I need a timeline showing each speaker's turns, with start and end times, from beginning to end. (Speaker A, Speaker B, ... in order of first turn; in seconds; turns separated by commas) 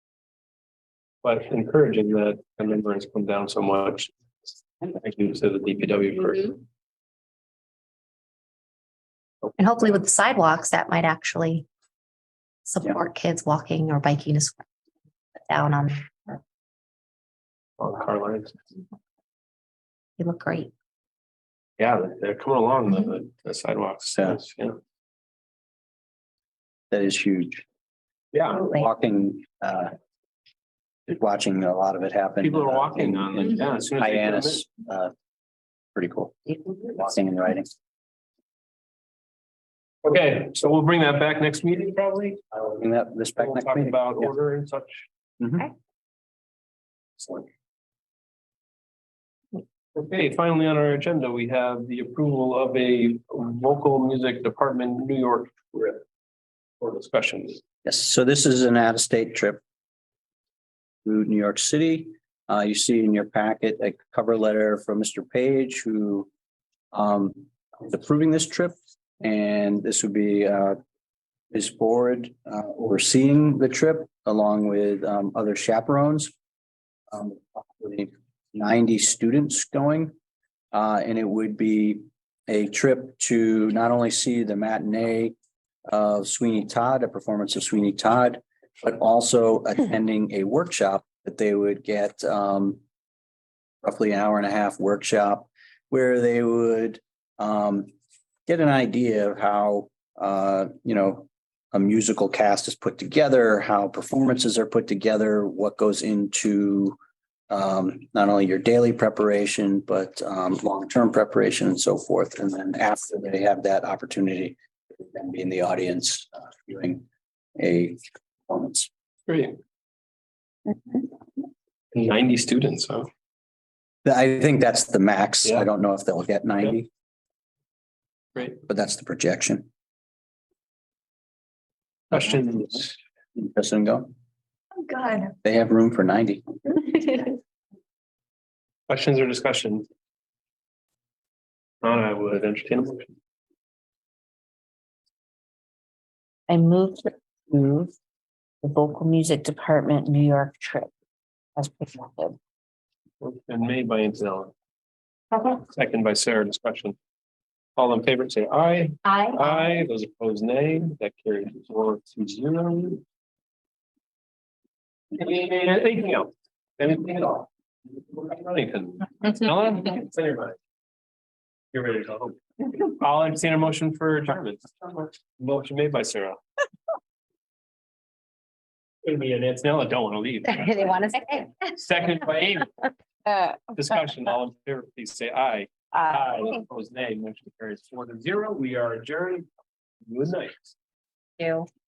Speaker A: 1.2-4.1, Speaker A: 4.8-6.6, Speaker B: 9.6-11.7, Speaker B: 12.6-14.6, Speaker B: 15.5-16.4, Speaker A: 17.8-18.6, Speaker B: 20.2-20.7, Speaker A: 21.8-24.8, Speaker C: 26.9-27.6, Speaker A: 28.3-28.7, Speaker C: 28.7-29.9, Speaker C: 31.1-35.1, Speaker A: 32.4-34.6, Speaker C: 35.9-37.7, Speaker A: 40.0-42.4, Speaker C: 42.6-44.3, Speaker A: 43.4-45.1, Speaker C: 45.4-45.7, Speaker A: 47.2-47.5, Speaker A: 49.6-56.0, Speaker A: 56.8-57.6, Speaker C: 57.8-59.6, Speaker C: 61.0-66.3, Speaker C: 66.9-70.8, Speaker C: 71.5-76.3, Speaker C: 77.1-80.1, Speaker C: 80.7-85.3, Speaker C: 85.9-92.8, Speaker C: 93.8-97.9, Speaker C: 98.5-107.0, Speaker C: 107.5-117.0, Speaker C: 117.6-118.9, Speaker A: 119.3-119.5, Speaker A: 121.9-123.1, Speaker C: 124.0-126.9, Speaker C: 128.7-129.7, Speaker C: 132.1-132.4, Speaker A: 132.1-133.0, Speaker C: 133.3-134.1, Speaker C: 135.4-137.1, Speaker A: 138.9-139.9, Speaker A: 141.8-143.1, Speaker D: 146.5-147.9, Speaker D: 148.6-150.9, Speaker D: 151.6-152.4, Speaker A: 153.2-154.5, Speaker A: 155.4-156.9, Speaker A: 157.8-163.0, Speaker A: 165.1-170.6, Speaker A: 171.7-176.4, Speaker A: 179.0-181.0, Speaker B: 180.7-181.5, Speaker A: 181.6-182.8, Speaker A: 183.7-189.4, Speaker A: 190.1-190.7, Speaker B: 191.4-191.7